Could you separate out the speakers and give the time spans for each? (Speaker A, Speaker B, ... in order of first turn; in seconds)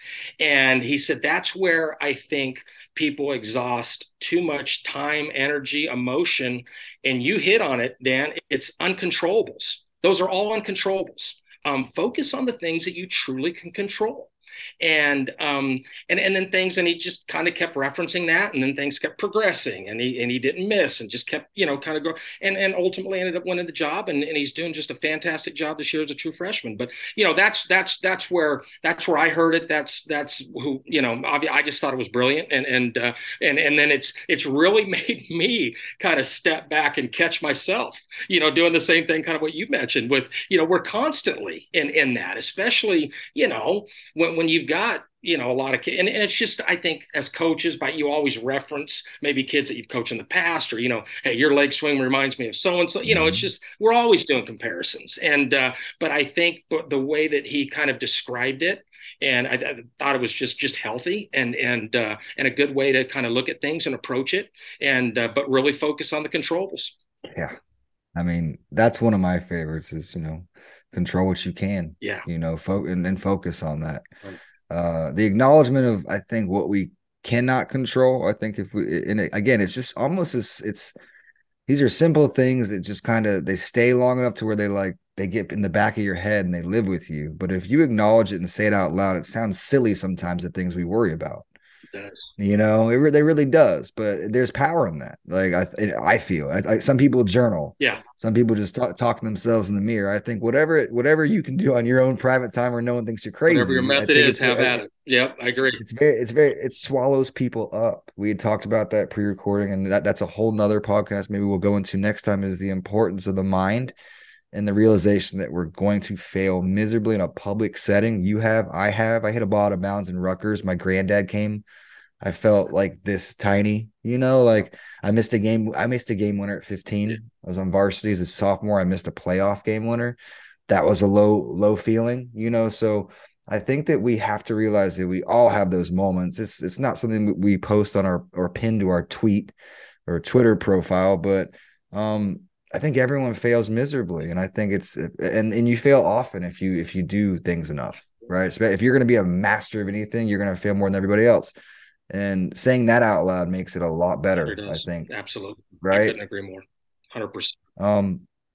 Speaker A: 0.4-67.0, 91.9-92.3, 103.5-105.8, 154.4-157.6
Speaker B: 53.0-53.5, 67.3-67.5, 68.2-74.1, 74.7-80.9, 81.7-91.5, 92.4-104.8, 105.8-114.0, 114.5-121.6, 122.2-139.6, 140.1-151.5, 152.1-155.1, 155.8-156.2, 157.8-158.2